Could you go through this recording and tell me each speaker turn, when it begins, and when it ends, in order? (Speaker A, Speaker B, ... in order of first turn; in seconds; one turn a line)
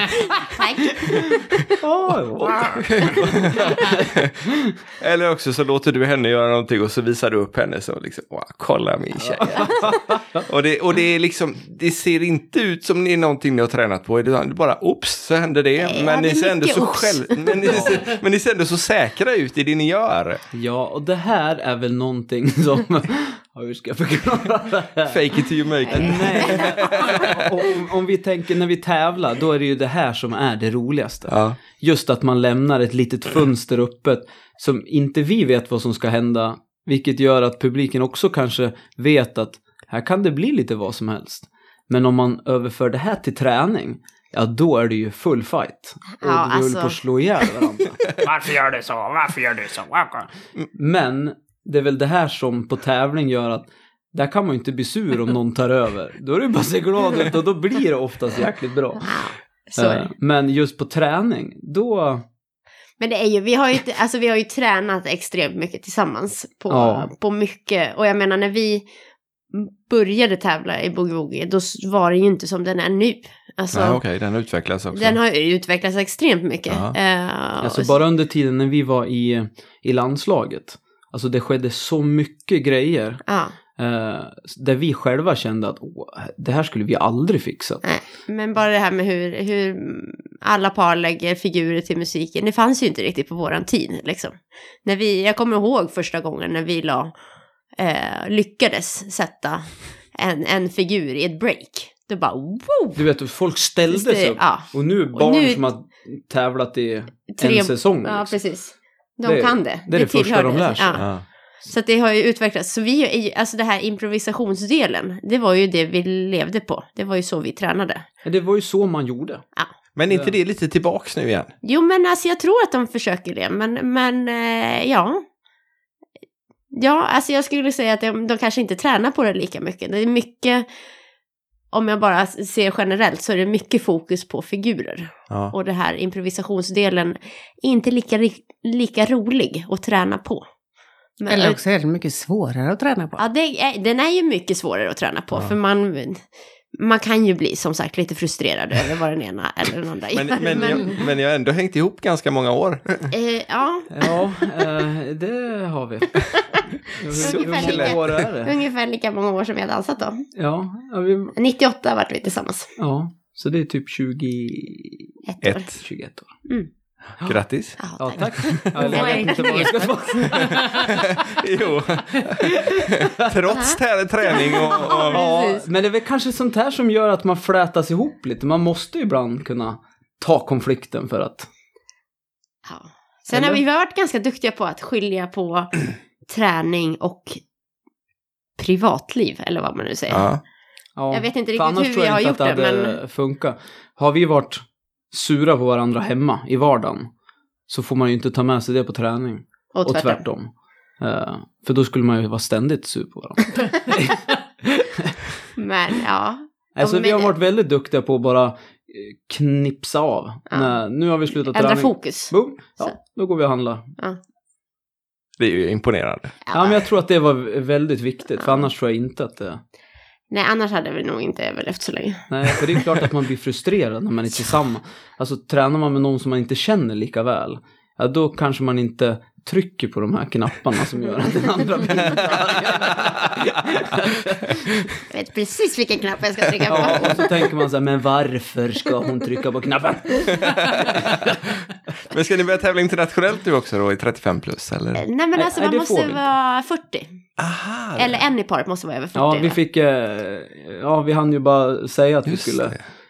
Speaker A: 0.5-1.6
Speaker B: 1.8-4.0
Speaker C: 2.8-4.3
Speaker C: 5.0-20.4
Speaker B: 9.2-10.4
Speaker A: 15.8-18.0
Speaker B: 17.7-18.0
Speaker B: 20.5-25.4
Speaker C: 25.1-27.4
Speaker A: 25.9-27.1
Speaker B: 25.9-48.0
Speaker C: 31.3-31.6
Speaker A: 46.2-47.0
Speaker D: 48.2-50.3
Speaker B: 50.8-59.1
Speaker A: 59.0-60.1
Speaker B: 59.8-62.2
Speaker A: 63.0-68.9
Speaker B: 66.7-67.1
Speaker A: 69.5-74.0
Speaker C: 73.7-75.2
Speaker A: 74.9-78.0
Speaker C: 76.7-77.0
Speaker B: 77.6-83.2
Speaker A: 83.3-83.5
Speaker B: 83.8-87.8
Speaker A: 87.8-97.1
Speaker A: 97.8-103.0
Speaker B: 103.0-108.4
Speaker A: 103.9-105.7
Speaker A: 107.3-111.1
Speaker B: 109.2-111.0
Speaker A: 111.6-118.1
Speaker B: 118.2-119.4
Speaker C: 120.0-121.5
Speaker B: 120.1-120.3
Speaker A: 121.6-125.2
Speaker A: 126.7-130.7
Speaker A: 131.7-140.5
Speaker A: 141.2-141.6
Speaker E: 141.3-143.2
Speaker A: 143.2-151.0
Speaker C: 150.1-153.1
Speaker A: 153.1-154.2
Speaker B: 153.9-156.3
Speaker B: 156.9-158.6
Speaker C: 157.1-158.2
Speaker A: 157.2-160.3
Speaker B: 160.3-161.3
Speaker A: 161.4-162.7
Speaker B: 162.8-165.1
Speaker A: 165.3-165.8
Speaker B: 165.8-166.3
Speaker C: 167.2-167.8
Speaker A: 167.8-169.8
Speaker B: 168.0-170.8
Speaker E: 168.8-170.0
Speaker C: 170.4-175.2
Speaker B: 172.4-173.3
Speaker A: 173.5-175.6
Speaker B: 174.8-181.5
Speaker A: 182.6-187.4
Speaker B: 183.3-183.6
Speaker A: 188.6-190.3
Speaker C: 190.1-190.4
Speaker B: 191.0-197.1
Speaker A: 191.1-193.0
Speaker B: 197.7-205.1
Speaker A: 199.7-200.2
Speaker A: 205.6-207.3
Speaker B: 206.8-213.9
Speaker A: 210.5-210.8
Speaker A: 211.5-213.0
Speaker C: 215.4-216.4
Speaker A: 216.5-216.8
Speaker B: 216.5-219.6
Speaker A: 218.4-218.7
Speaker A: 220.3-222.8
Speaker B: 222.3-234.8
Speaker A: 235.1-237.3
Speaker B: 236.7-241.2
Speaker C: 240.4-241.3
Speaker C: 242.1-245.0
Speaker A: 245.0-247.1
Speaker B: 245.3-246.3
Speaker C: 247.4-248.1
Speaker A: 248.0-249.6
Speaker B: 249.1-252.8
Speaker C: 252.3-252.8